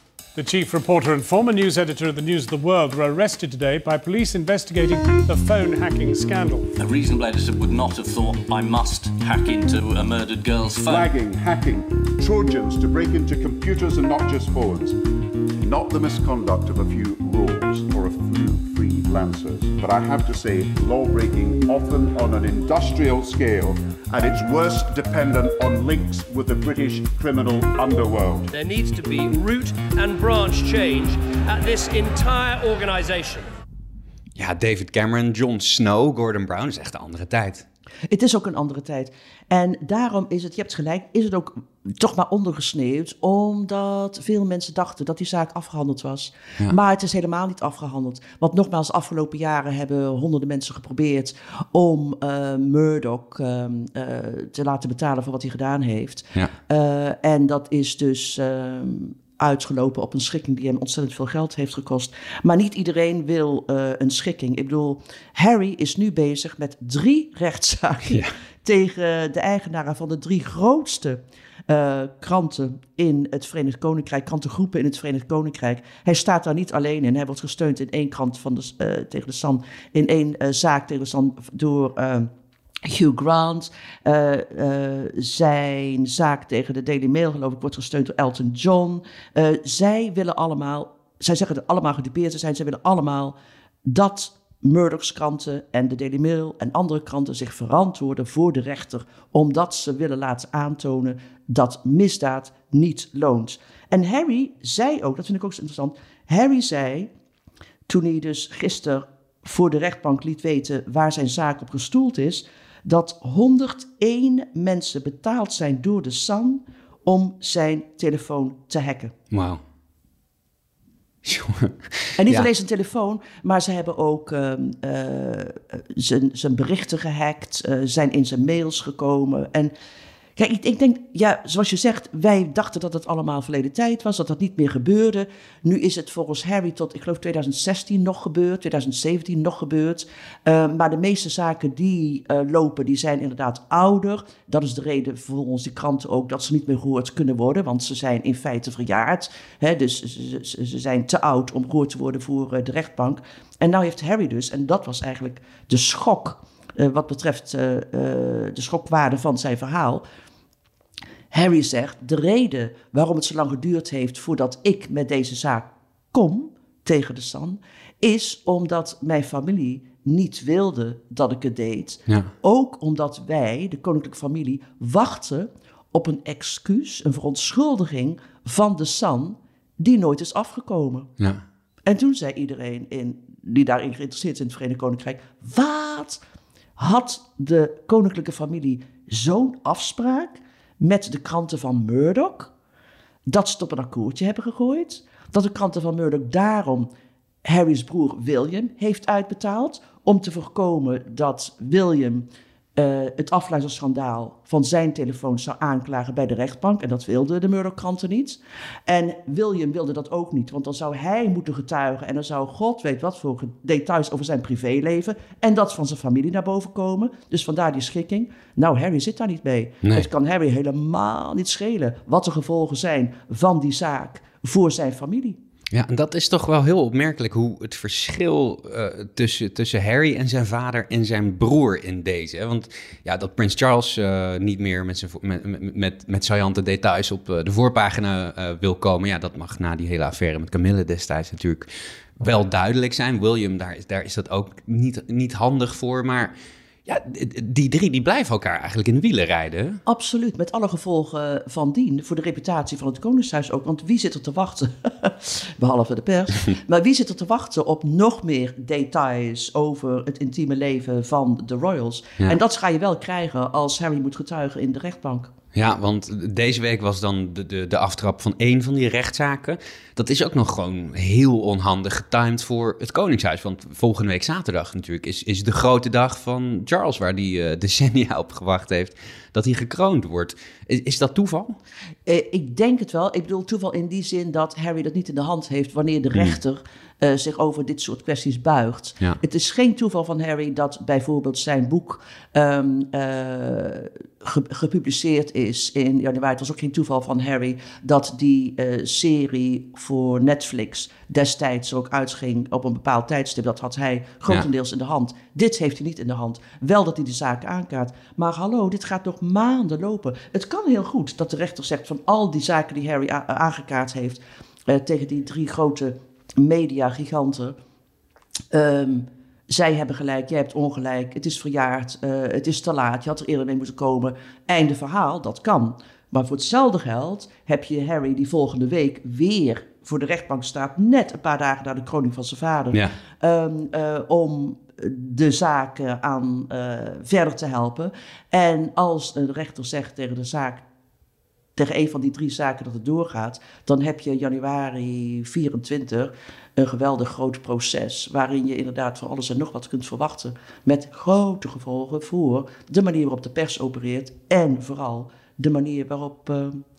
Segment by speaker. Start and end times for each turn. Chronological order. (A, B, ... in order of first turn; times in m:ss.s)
0:00.3-0:06.7 A
0:06.8-0:11.1 B
0:10.8-0:15.0 C
0:15.6-0:28.5 C
0:28.5-0:33.5 D
0:34.3-0:37.6 E
0:38.1-1:22.3 F
1:08.1-1:08.3 E
1:22.8-1:47.1 F
1:47.9-1:59.1 F
1:59.3-1:59.6 E
2:01.2-2:02.5 E
2:02.2-2:09.7 F
2:10.4-2:40.0 F
2:41.3-3:01.1 F
3:01.8-3:06.2 F
3:06.8-3:12.5 F
3:13.3-3:16.9 F
3:17.4-3:45.4 F
3:39.8-3:40.1 E
3:45.7-4:06.3 E
4:06.8-4:09.8 E
4:09.8-4:25.3 F
4:25.5-4:41.6 E
4:42.0-5:17.6 F
5:18.5-5:40.6 F
5:41.6-5:56.6 F